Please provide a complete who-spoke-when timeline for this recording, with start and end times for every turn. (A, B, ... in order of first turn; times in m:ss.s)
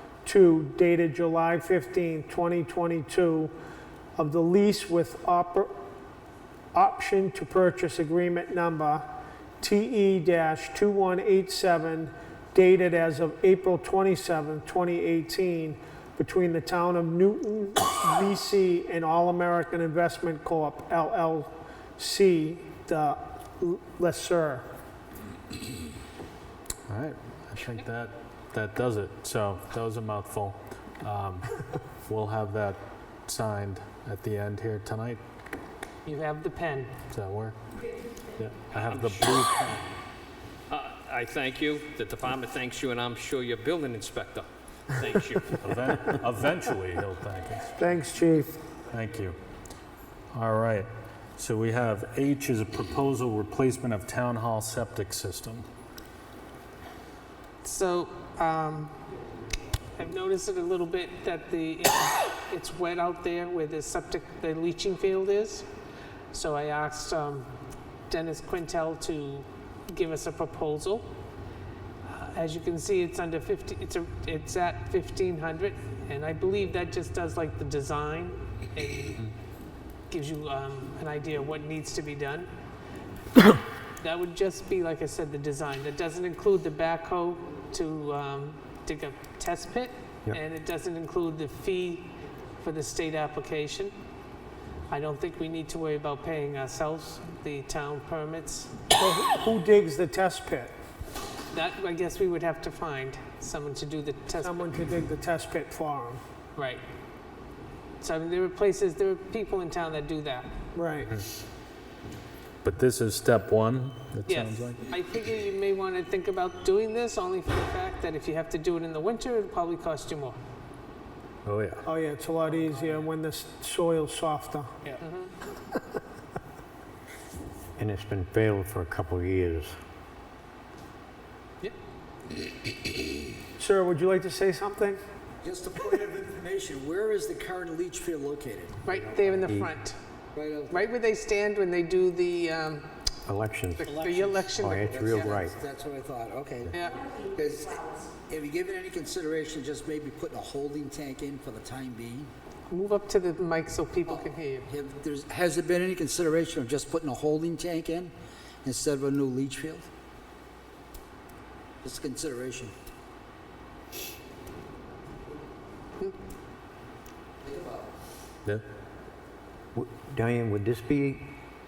0:00.2-0:03.5 A
0:04.2-0:05.7 A
0:06.7-0:09.1 A
0:09.6-0:24.6 A
0:26.9-0:35.2 B
0:36.0-0:36.9 C
0:37.1-0:37.6 B
0:38.4-0:39.9 B
0:41.1-0:44.4 D
0:45.0-0:45.4 D
0:45.5-0:47.7 B
0:47.8-0:48.6 A
0:48.9-0:49.4 B
0:50.3-0:55.6 B
0:57.6-0:58.9 C
1:00.0-1:05.7 C
1:06.3-1:07.5 C
1:08.1-1:11.1 C
1:12.1-1:19.3 C
1:20.1-1:22.5 C
1:24.0-1:32.1 C
1:32.6-1:33.9 C
1:34.9-1:38.7 C
1:38.9-1:40.7 A
1:41.5-1:44.7 C
1:44.4-1:46.2 A
1:46.6-1:46.8 C
1:48.0-1:50.5 C
1:50.7-1:51.1 A
1:52.6-1:54.8 B
1:54.3-2:00.4 C
2:01.4-2:01.8 B
2:01.8-2:04.7 A
2:02.6-2:03.0 C
2:04.8-2:05.3 C
2:07.8-2:09.7 E
2:13.6-2:15.0 A
2:15.4-2:19.4 F
2:18.8-2:20.0 C
2:19.5-2:19.7 E
2:20.3-2:20.9 F
2:20.7-2:22.9 C
2:23.2-2:24.0 E
2:23.8-2:25.3 C
2:23.9-2:32.3 F
2:24.5-2:25.5 E
2:26.7-2:27.0 C
2:32.7-2:34.7 C
2:34.1-2:38.1 F
2:38.6-2:39.9 F
2:41.8-2:42.7 F
2:47.4-2:47.8 F
2:49.7-2:51.3 E